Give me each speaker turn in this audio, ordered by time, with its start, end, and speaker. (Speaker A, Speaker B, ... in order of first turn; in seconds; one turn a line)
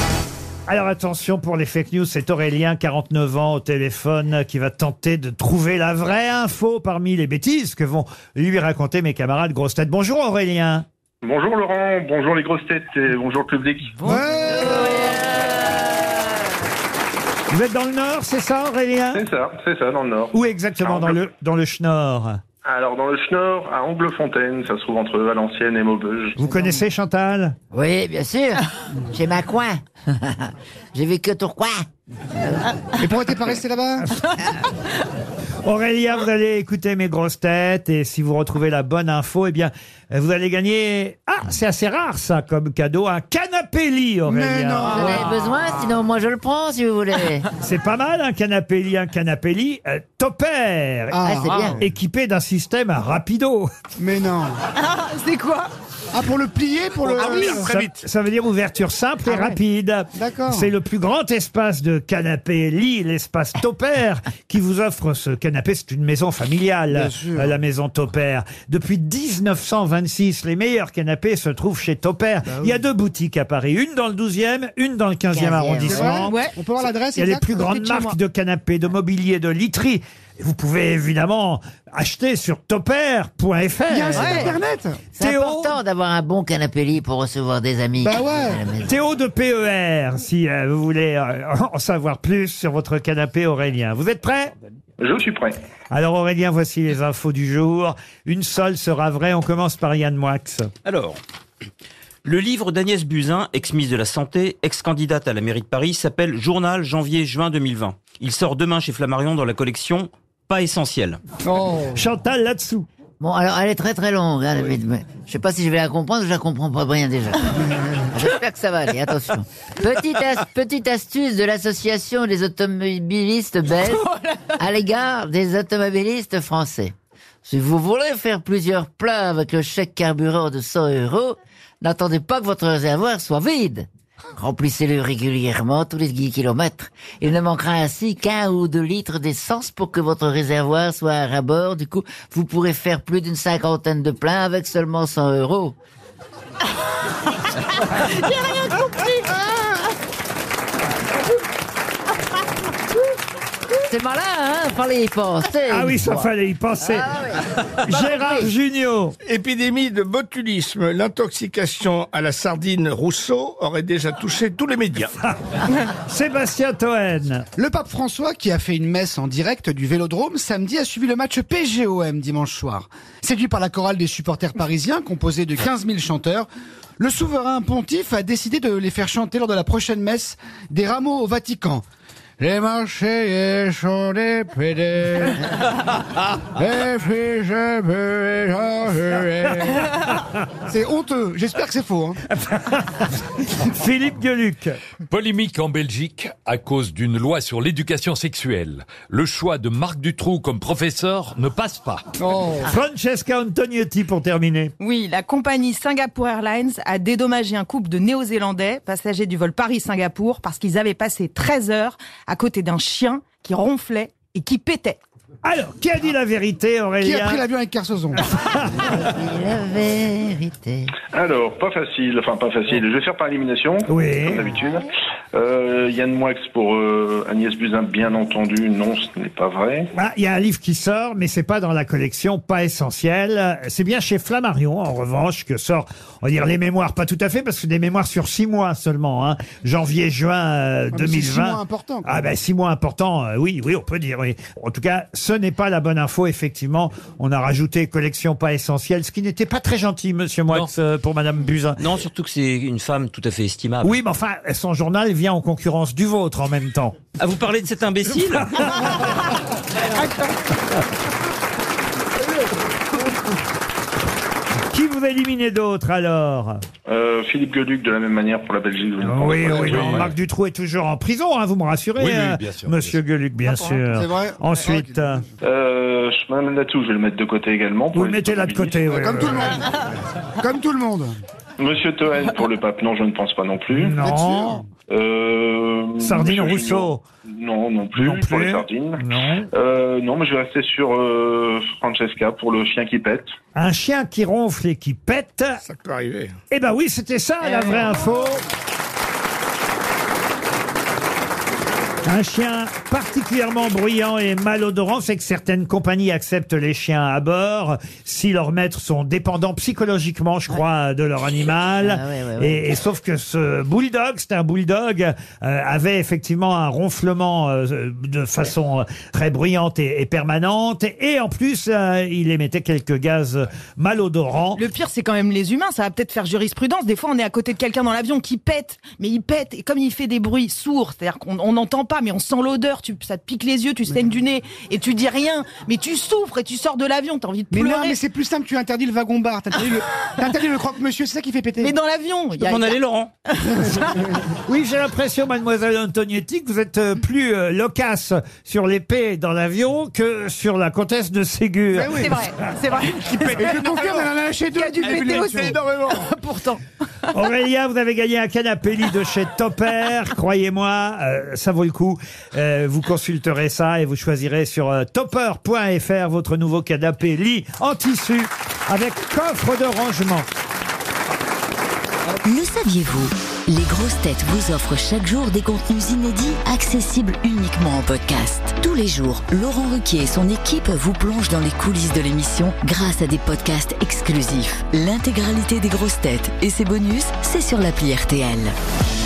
Speaker A: 0.7-10.8
Speaker B: 11.2-14.0
Speaker A: 14.0-14.6
Speaker C: 14.0-14.7
Speaker D: 14.7-15.8
Speaker A: 17.5-19.2
Speaker B: 19.1-21.2
Speaker A: 20.3-22.4
Speaker B: 22.6-26.4
Speaker A: 26.4-27.6
Speaker D: 27.7-31.8
Speaker D: 32.4-32.8
Speaker C: 33.0-34.1
Speaker A: 35.6-45.2
Speaker C: 44.3-45.2
Speaker D: 44.8-47.5
Speaker A: 47.6-51.2
Speaker C: 51.1-51.8
Speaker D: 51.2-51.8
Speaker A: 51.8-53.7
Speaker C: 54.0-54.6
Speaker E: 54.8-55.7
Speaker C: 56.1-57.7
Speaker A: 57.2-76.4
Speaker C: 60.1-60.7
Speaker C: 66.9-67.5
Speaker D: 75.3-76.2
Speaker C: 75.8-77.5
Speaker E: 76.2-76.5
Speaker A: 77.2-84.6
Speaker E: 77.6-78.2
Speaker C: 83.9-85.0
Speaker E: 84.2-84.5
Speaker D: 85.2-88.9
Speaker A: 85.2-85.8
Speaker C: 88.0-88.6
Speaker A: 88.8-94.5
Speaker B: 95.0-95.6
Speaker A: 95.9-100.7
Speaker F: 100.8-101.2
Speaker F: 102.2-111.2
Speaker C: 111.4-112.0
Speaker A: 111.9-112.9
Speaker D: 113.2-124.0
Speaker E: 124.1-124.4
Speaker D: 124.6-126.9
Speaker D: 127.5-145.7
Speaker E: 148.0-149.1
Speaker D: 153.7-156.3
Speaker A: 155.7-157.1
Speaker D: 156.9-158.5
Speaker A: 157.8-159.1
Speaker G: 159.2-165.1
Speaker A: 165.2-167.4
Speaker C: 167.6-176.5
Speaker C: 177.0-181.8
Speaker C: 182.4-185.4
Speaker C: 186.5-189.8
Speaker C: 190.7-192.2
Speaker A: 192.3-194.8
Speaker H: 195.1-202.0
Speaker C: 202.2-202.7
Speaker A: 202.6-204.7
Speaker E: 204.8-215.0
Speaker A: 215.4-217.4
Speaker C: 217.0-218.2
Speaker A: 218.2-219.1
Speaker D: 218.8-220.9
Speaker B: 221.1-229.9
Speaker A: 223.9-224.4
Speaker A: 229.9-251.9
Speaker C: 240.9-242.2
Speaker F: 251.8-253.9
Speaker A: 253.8-257.0
Speaker F: 257.2-258.4
Speaker A: 258.6-259.1
Speaker A: 264.7-266.6
Speaker B: 266.9-269.9
Speaker A: 269.0-275.2
Speaker H: 269.7-270.1
Speaker H: 272.0-272.9
Speaker C: 273.4-275.0
Speaker B: 275.4-279.1
Speaker A: 277.9-279.6
Speaker C: 278.9-281.2
Speaker B: 281.6-283.9
Speaker A: 283.7-284.6
Speaker C: 284.0-284.6
Speaker B: 284.9-293.3
Speaker A: 286.0-287.0
Speaker A: 287.9-289.5
Speaker A: 293.5-295.6
Speaker G: 295.6-296.4
Speaker A: 296.5-298.4
Speaker A: 302.0-324.6
Speaker D: 311.8-312.6
Speaker E: 324.5-338.0
Speaker C: 337.5-341.7
Speaker E: 341.6-342.8
Speaker F: 342.4-343.1
Speaker E: 343.3-344.1
Speaker A: 344.4-352.1
Speaker C: 351.8-352.0
Speaker E: 351.9-356.6
Speaker C: 353.0-356.1
Speaker A: 357.1-370.3
Speaker I: 372.2-388.5